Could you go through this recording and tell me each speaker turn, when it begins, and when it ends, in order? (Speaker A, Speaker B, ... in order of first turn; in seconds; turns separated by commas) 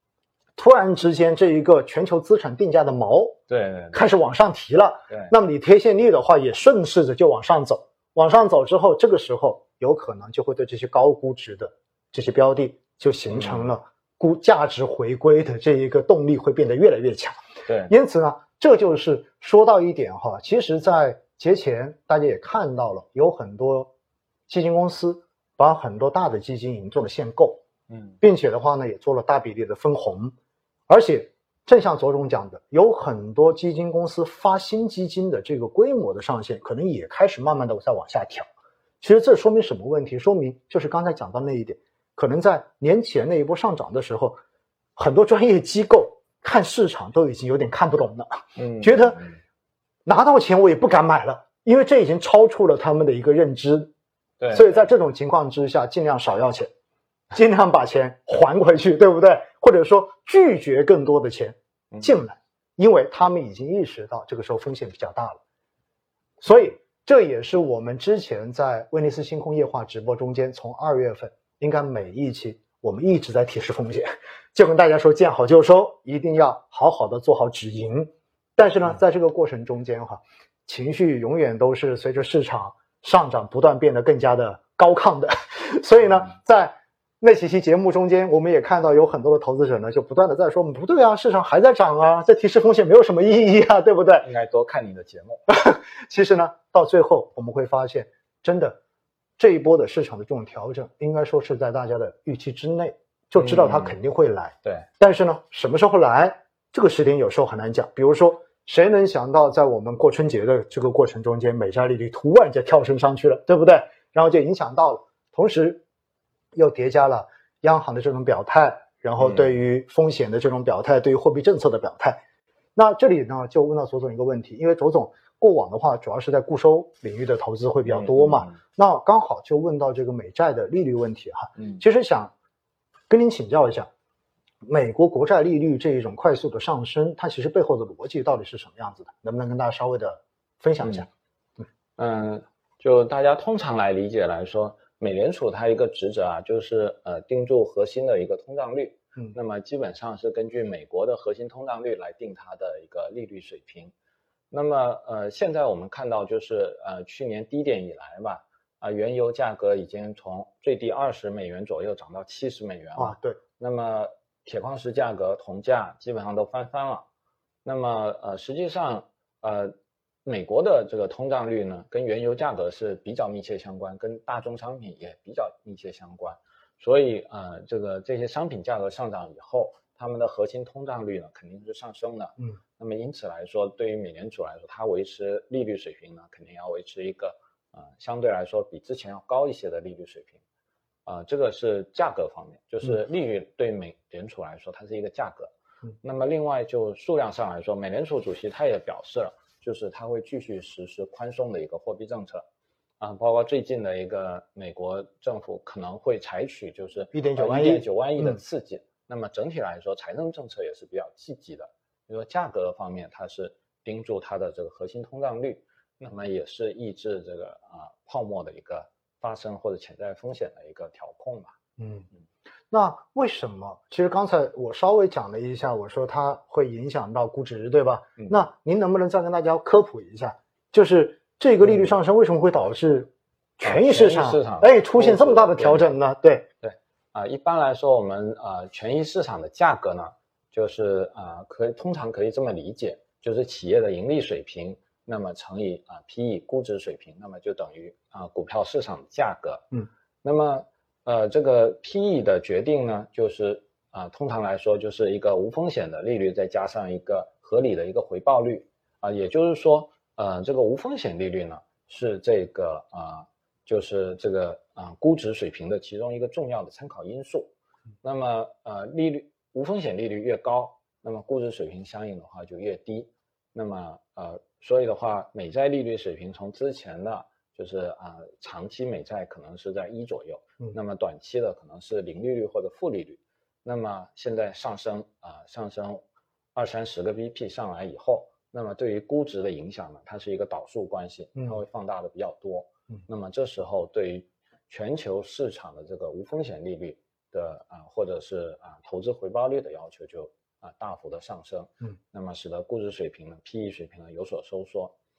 Speaker A: 0.6-3.4, Speaker B: 3.5-4.1, Speaker A: 3.9-17.4, Speaker B: 13.3-13.7, Speaker B: 17.6-17.9, Speaker A: 17.9-23.9, Speaker A: 24.5-27.6, Speaker B: 27.9-28.2, Speaker A: 28.2-30.3, Speaker A: 30.9-38.5, Speaker A: 39.0-44.4, Speaker A: 45.0-49.2, Speaker B: 48.5-49.4, Speaker A: 50.0-53.9, Speaker B: 54.4-54.9, Speaker A: 54.5-56.7, Speaker A: 57.3-65.4, Speaker B: 61.9-62.2, Speaker A: 66.4-94.3, Speaker B: 94.2-95.4, Speaker A: 95.5-98.8, Speaker A: 99.4-115.8, Speaker B: 103.3-104.0, Speaker B: 104.6-104.9, Speaker A: 116.5-122.2, Speaker B: 119.2-119.5, Speaker A: 122.8-132.3, Speaker B: 127.8-128.6, Speaker B: 131.6-131.8, Speaker A: 133.1-133.9, Speaker A: 134.6-141.1, Speaker B: 140.8-141.1, Speaker B: 142.0-153.9, Speaker B: 154.5-167.0, Speaker A: 163.0-163.4, Speaker B: 167.6-169.7, Speaker B: 170.2-190.4, Speaker B: 191.1-202.4, Speaker B: 203.0-221.5, Speaker A: 207.1-208.4, Speaker A: 221.8-222.1, Speaker A: 222.7-236.4, Speaker B: 231.6-231.9, Speaker B: 233.6-235.9, Speaker B: 236.6-249.6, Speaker B: 250.2-267.5, Speaker B: 268.0-286.0, Speaker B: 286.6-304.9